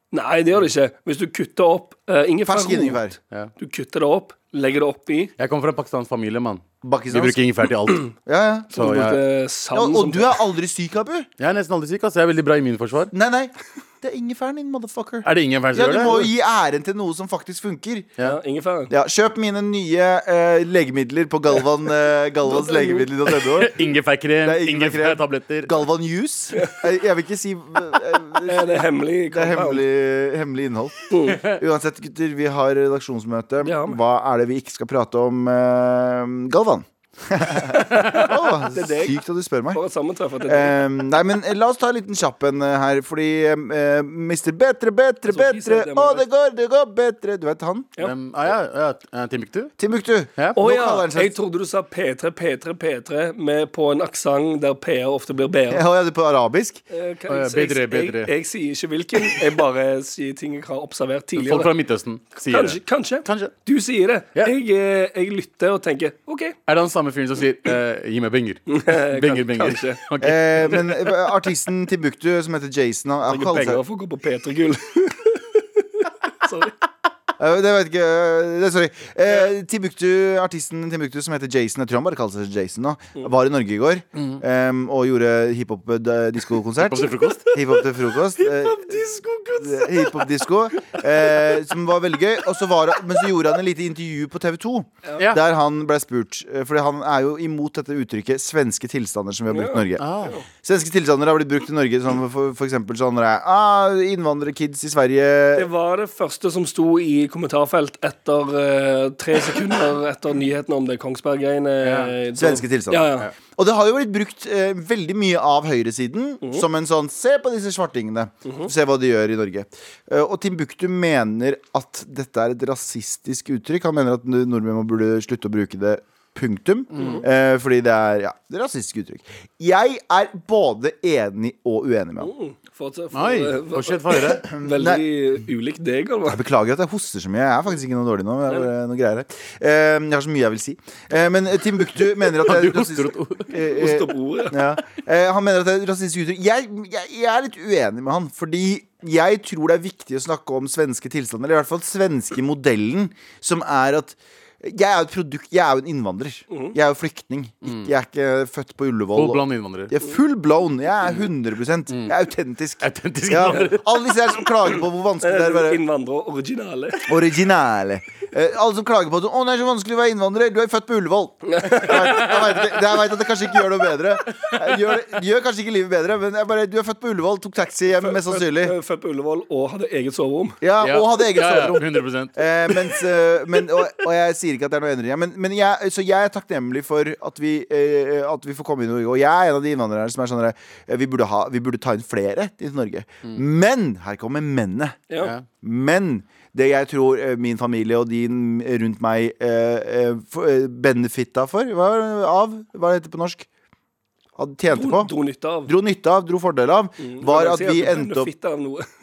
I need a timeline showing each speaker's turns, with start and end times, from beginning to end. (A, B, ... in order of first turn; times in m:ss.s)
0:00.1-0:05.3 A
0:02.5-0:03.2 B
0:05.4-0:08.1 C
0:06.8-0:07.4 B
0:08.2-0:08.7 B
0:08.7-0:09.2 C
0:08.8-0:10.4 A
0:09.7-0:11.3 B
0:11.4-0:13.1 C
0:13.1-0:18.1 B
0:15.2-0:16.2 C
0:18.2-0:18.9 A
0:18.9-0:23.8 B
0:22.5-0:23.1 A
0:23.4-0:25.7 C
0:24.4-0:39.8 B
0:26.5-0:26.8 A
0:28.4-0:29.8 A
0:31.1-0:31.4 A
0:31.3-0:31.6 C
0:33.6-0:34.0 A
0:37.7-0:39.2 A
0:39.7-0:40.8 A
0:40.4-0:47.9 B
0:45.3-0:46.2 A
0:48.0-0:49.7 C
0:49.8-0:51.3 B
0:50.5-0:55.8 A
0:55.7-0:56.8 B
0:56.9-1:01.7 A
0:57.3-0:58.3 C
1:01.4-1:03.5 C
1:02.4-1:06.6 A
1:06.7-1:11.1 C
1:08.7-1:10.0 A
1:10.2-1:13.8 B
1:13.3-1:16.8 A
1:17.4-1:29.1 B
1:24.2-1:24.4 C
1:26.8-1:27.4 C
1:27.1-1:31.7 A
1:29.6-1:45.7 B
1:39.5-1:40.4 A
1:40.0-1:40.4 C
1:45.5-1:53.3 A
1:51.8-1:52.1 C
1:52.4-2:12.3 B
2:06.9-2:07.2 C
2:07.0-2:07.2 A
2:12.2-2:16.4 A
2:13.1-2:14.4 C
2:14.4-2:15.0 B
2:16.3-2:45.8 B
2:22.4-2:23.5 C
2:23.5-2:24.6 A
2:36.5-2:36.8 A
2:37.6-2:37.9 C
2:39.1-2:40.0 C
2:42.8-2:43.8 C
2:45.2-2:47.1 A
2:47.1-2:58.8 B
2:51.5-2:52.4 A
2:51.8-2:52.9 C
2:57.9-3:00.6 A
3:00.6-3:01.8 B
3:00.8-3:02.8 C
3:02.3-3:15.1 B
3:15.6-3:23.5 B
3:24.4-3:25.1 B
3:24.7-3:25.7 A
3:25.6-3:28.3 B
3:27.0-3:28.8 A